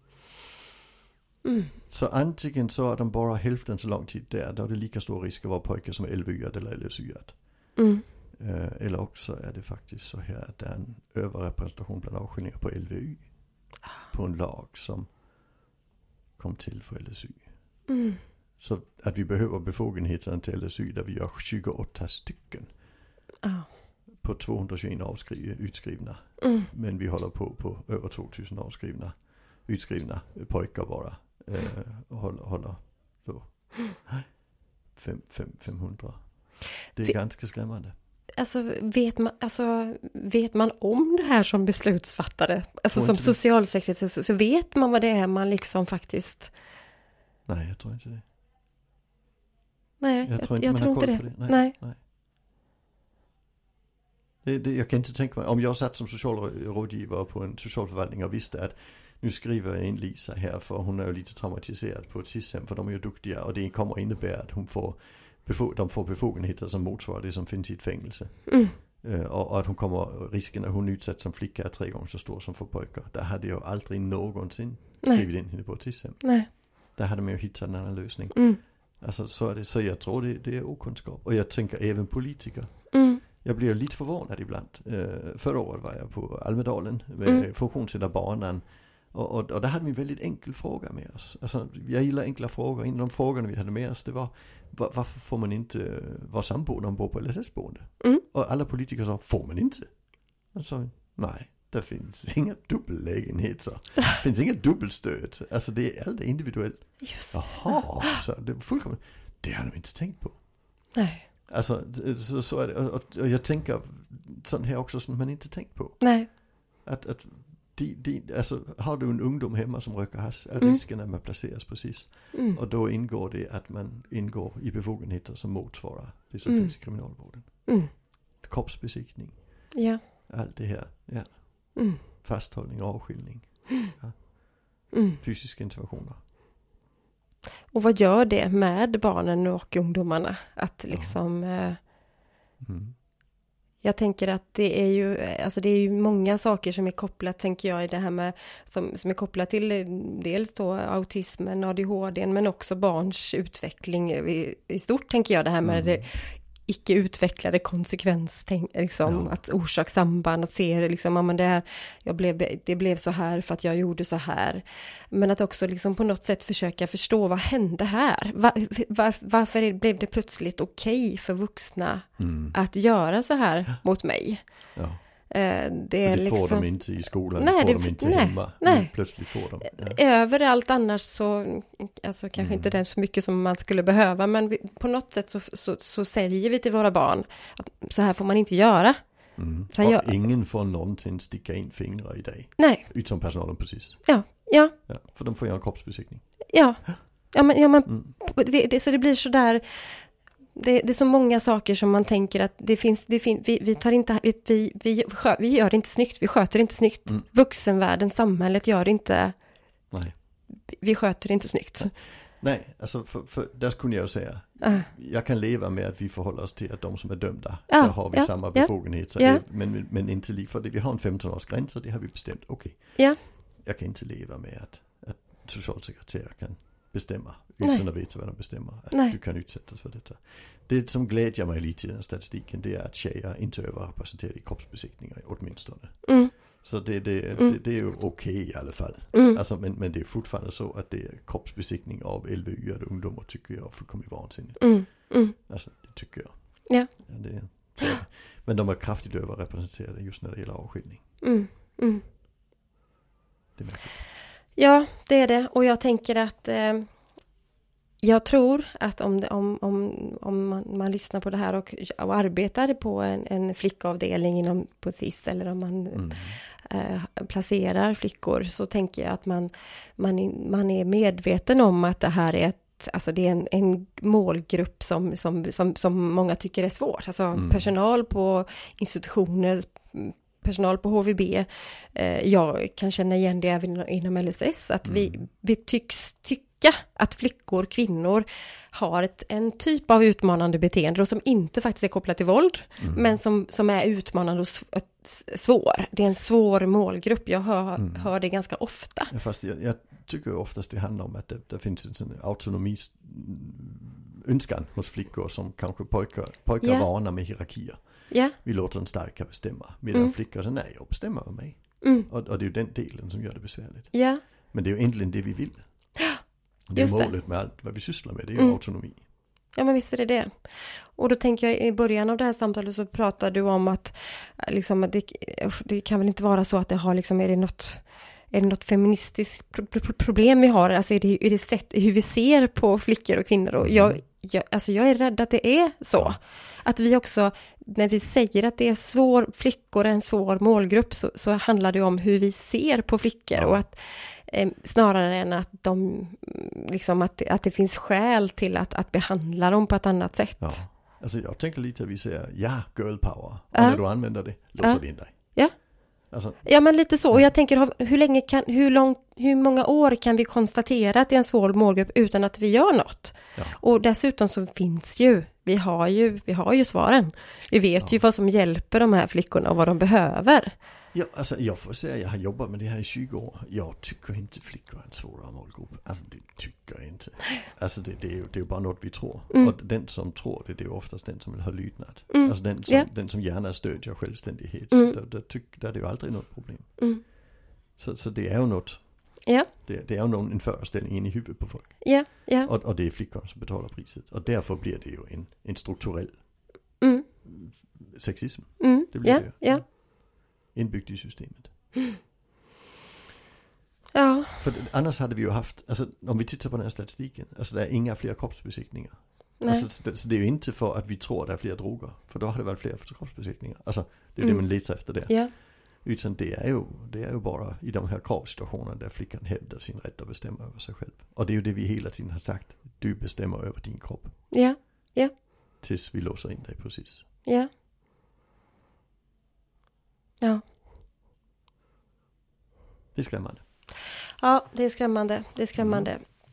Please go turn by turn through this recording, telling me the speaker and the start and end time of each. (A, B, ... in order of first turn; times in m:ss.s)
0:01.4-0:01.7 A
0:01.9-0:07.4 B
0:07.8-0:08.0 A
0:08.4-0:13.3 B
0:14.1-0:15.1 B
0:16.4-0:17.5 B
0:17.9-0:18.2 A
0:18.6-0:22.7 B
0:24.2-0:34.3 B
0:26.4-0:26.7 A
0:34.9-0:36.2 B
0:36.9-0:37.9 B
0:38.4-0:46.5 A
0:42.9-0:43.4 B
0:47.4-0:48.2 B
0:50.0-0:51.8 A
0:50.2-0:52.0 B
0:54.4-1:39.9 B
1:08.5-1:08.8 A
1:16.2-1:16.5 A
1:18.3-1:18.6 A
1:22.9-1:23.2 A
1:40.5-1:50.5 B
1:47.0-1:48.2 A
1:50.9-1:51.2 A
1:51.5-2:07.7 B
1:56.0-1:56.3 A
2:02.3-2:02.6 A
2:06.5-2:06.7 A
2:07.6-2:07.9 A
2:08.4-2:09.7 B
2:09.7-2:10.0 A
2:10.3-2:16.2 B
2:14.9-2:15.2 A
2:17.7-2:21.8 A
2:20.9-2:21.2 B
2:22.6-2:23.0 B
2:23.8-2:54.4 A
2:35.6-2:36.0 B
2:39.0-2:39.3 B
2:52.2-2:52.5 B
2:55.3-2:56.7 A
2:56.0-3:00.0 B
2:57.4-2:58.9 A
2:59.7-3:09.0 A
3:02.4-3:02.8 B
3:09.4-3:14.1 B
3:09.7-3:10.1 A
3:12.6-3:12.8 A
3:14.0-3:14.7 A
3:14.9-3:16.2 B
3:16.5-3:19.8 A
3:17.8-3:18.1 B
3:20.5-3:29.3 A
3:30.7-3:31.9 A
3:32.3-4:11.0 B
3:34.6-3:34.9 A
3:37.7-3:39.4 A
3:48.9-3:49.2 A
3:56.0-3:56.6 A
3:59.1-3:59.4 A
4:04.6-4:05.3 A
4:11.2-4:12.0 A
4:13.6-4:14.0 B
4:14.6-4:16.9 A
4:18.0-4:59.1 A
4:25.9-4:26.4 B
4:37.3-4:37.7 B
4:44.8-4:45.2 B
4:52.8-4:53.2 B
4:57.8-4:58.1 B
4:59.1-5:07.8 B
5:06.6-5:06.9 A
5:08.1-5:08.3 A
5:08.3-5:15.6 B
5:11.8-5:12.1 A
5:13.9-5:14.2 A
5:16.7-5:19.0 B
5:16.7-5:17.1 A
5:19.6-5:20.3 A
5:21.0-5:50.6 A
5:33.6-5:34.0 B
5:43.3-5:43.6 B
5:50.4-5:55.3 B
5:53.5-5:53.8 A
5:54.6-5:55.5 A
5:56.1-5:56.5 B
5:56.4-6:10.5 A
6:10.9-6:26.8 B
6:22.1-6:22.9 A
6:24.7-6:25.0 A
6:27.8-6:28.9 B
6:29.6-6:36.2 B
6:31.8-6:32.5 A
6:36.8-6:37.0 A
6:37.2-6:39.8 B
6:38.6-6:39.6 A
6:40.5-6:41.5 B
6:43.9-6:44.4 A
6:44.4-7:04.2 B
6:49.4-6:49.6 A
6:55.0-6:55.3 A
7:04.3-7:05.1 A
7:05.6-7:07.0 B
7:12.9-7:13.4 B
7:14.2-7:16.0 A
7:15.6-7:15.9 B